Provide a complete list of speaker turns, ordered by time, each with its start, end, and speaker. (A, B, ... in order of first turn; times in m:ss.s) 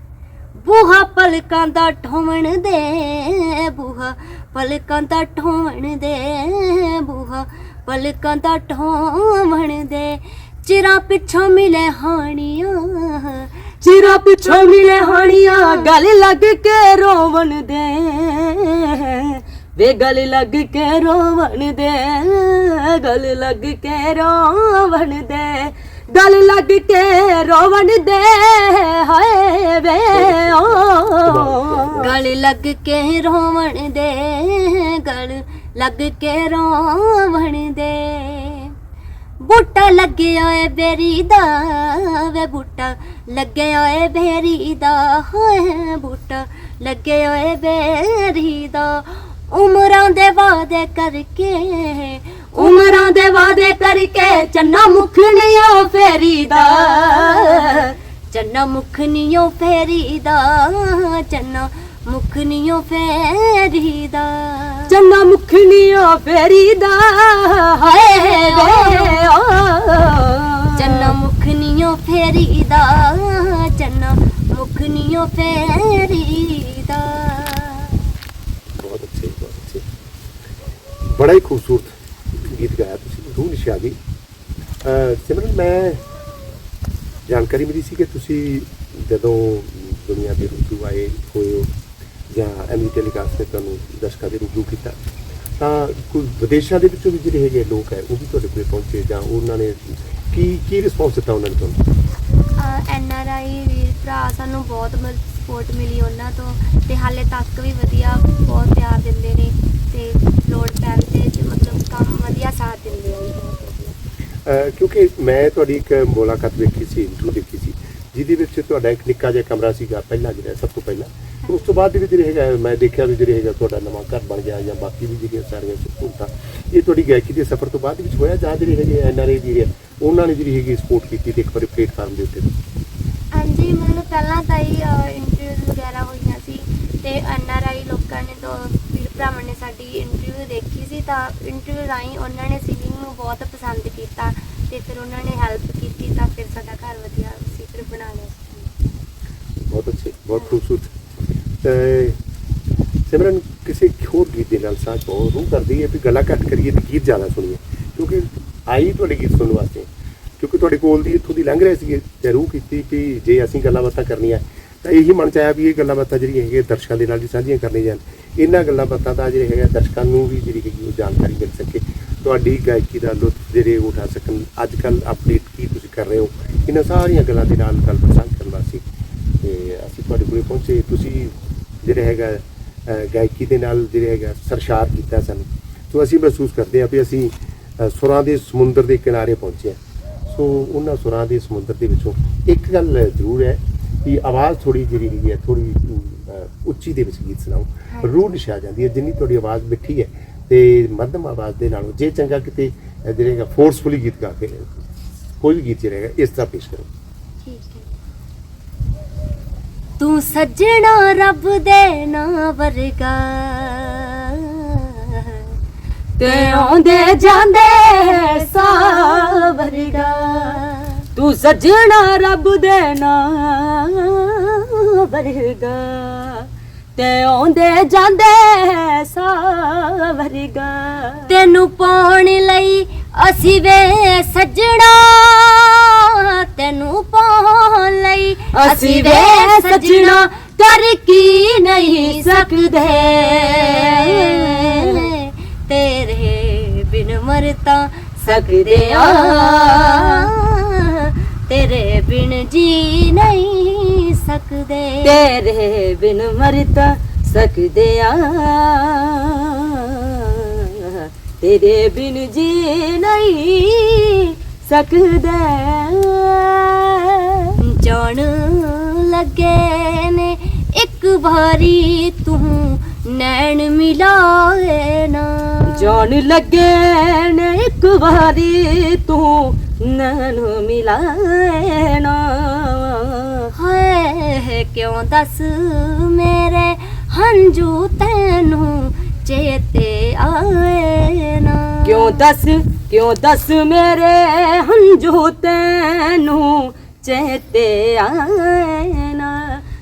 0:00.6-0:13.5 A
0:13.8-0:32.1 B
0:14.4-0:15.9 A
0:30.1-0:32.2 C
0:32.0-0:38.7 A
0:39.4-0:53.2 A
0:52.6-0:57.9 B
0:53.9-1:04.9 A
1:04.9-1:11.2 B
1:07.8-1:09.2 A
1:10.8-1:18.0 A
1:18.8-1:19.8 C
1:21.0-1:24.0 C
1:24.8-1:26.0 C
1:27.3-1:31.7 C
1:32.3-1:35.0 C
1:35.6-1:41.8 C
1:42.6-1:54.0 A
1:54.4-2:12.5 C
2:13.3-2:28.7 A
2:29.7-2:30.9 C
2:31.6-2:32.2 C
2:33.1-2:39.9 C
2:40.4-2:58.8 C
2:59.4-3:24.8 C
3:17.9-3:18.2 A
3:25.4-3:26.9 C
3:27.4-3:27.9 A
3:30.0-3:35.4 A
3:36.2-3:40.6 B
3:36.2-3:37.1 A
3:37.8-3:41.0 A
3:41.2-3:51.3 B
3:51.3-4:15.2 A
3:58.5-4:00.3 B
4:01.9-4:05.0 B
4:08.3-4:10.2 B
4:15.0-4:27.5 B
4:27.6-4:36.0 A
4:35.7-4:43.4 B
4:43.5-4:52.2 A
4:51.9-4:59.6 B